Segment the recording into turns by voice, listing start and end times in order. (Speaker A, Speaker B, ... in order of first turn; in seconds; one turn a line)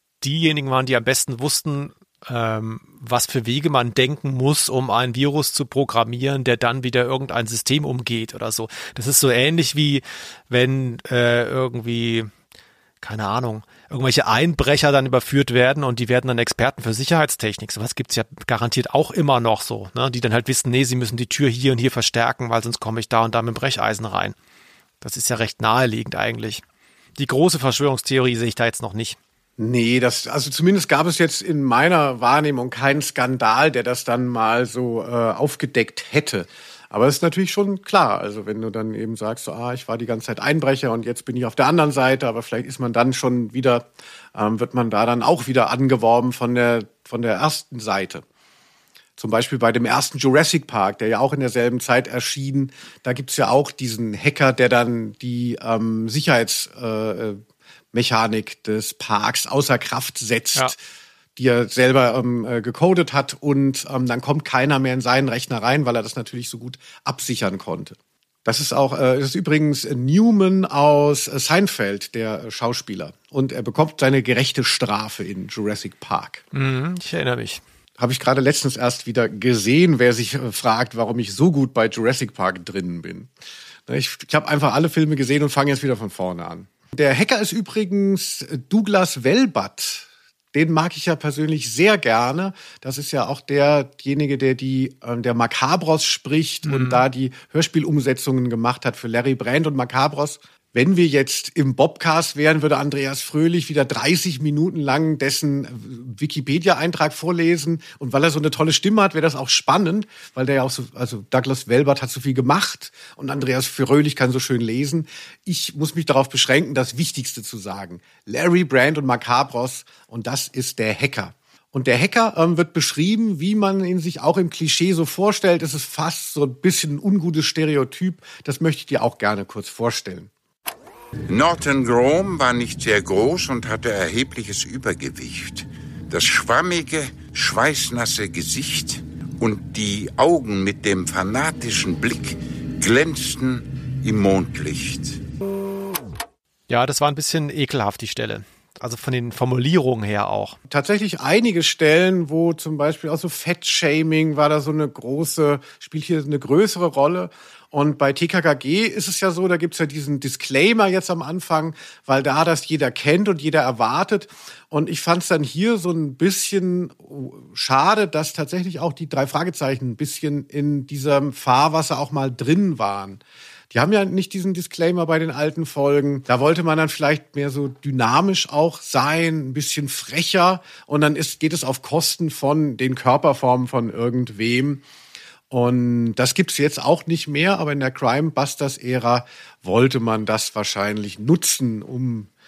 Speaker A: 0.2-12.3
Speaker A: 13.0-24.4
Speaker A: 25.0-26.6
Speaker A: 27.2-29.2
Speaker B: 29.6-48.2
Speaker B: 49.2-57.4
Speaker B: 57.9-60.8
Speaker B: 61.4-76.4
Speaker A: 76.5-77.6
Speaker B: 78.0-83.3
Speaker B: 83.9-130.3
Speaker A: 96.7-97.1
Speaker C: 131.3-145.2
Speaker A: 146.7-150.6
Speaker B: 150.7-173.2
Speaker B: 173.7-184.8
Speaker B: 185.5-192.3